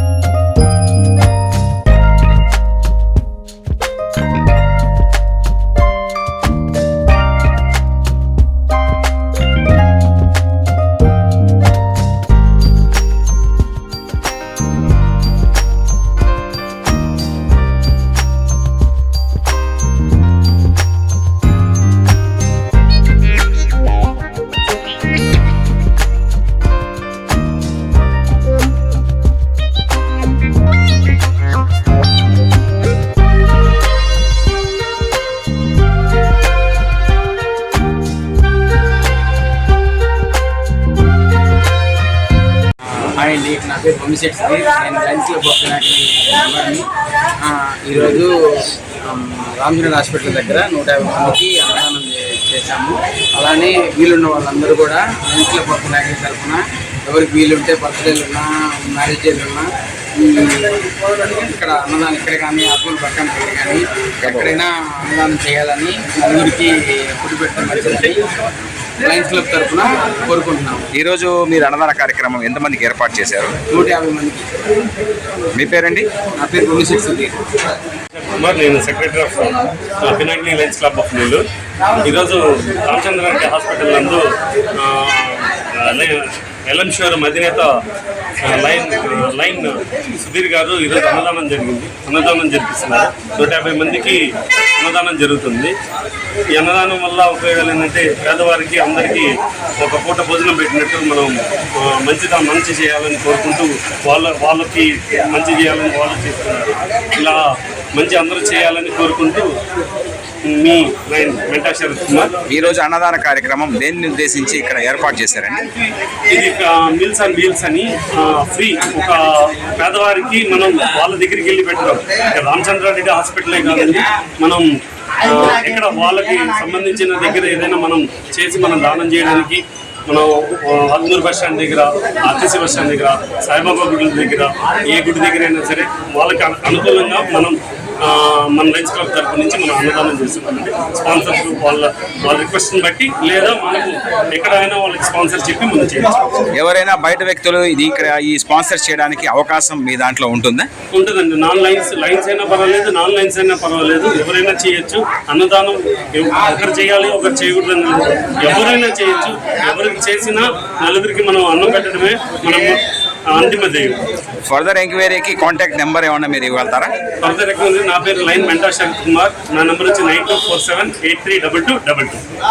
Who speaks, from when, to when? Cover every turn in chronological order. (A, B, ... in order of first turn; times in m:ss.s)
0:43.2-0:46.9 A
0:47.4-0:48.3 A
0:49.0-1:08.2 A
1:04.2-1:04.6 B
1:09.0-1:10.9 A
1:10.9-1:13.6 B
1:13.7-1:14.5 A
1:15.6-1:16.1 B
1:16.4-1:17.4 A
1:18.2-1:21.4 C
1:22.0-1:24.2 C
1:24.8-1:27.7 C
1:28.4-1:34.2 C
1:34.8-1:35.8 C
1:36.6-1:47.4 C
1:48.0-1:49.5 C
1:50.4-1:52.3 C
1:52.5-1:55.6 B
1:56.3-2:04.7 C
2:05.2-2:26.4 C
2:26.6-2:30.7 B
2:30.9-2:44.0 C
2:44.5-2:46.9 B
2:47.2-2:52.2 C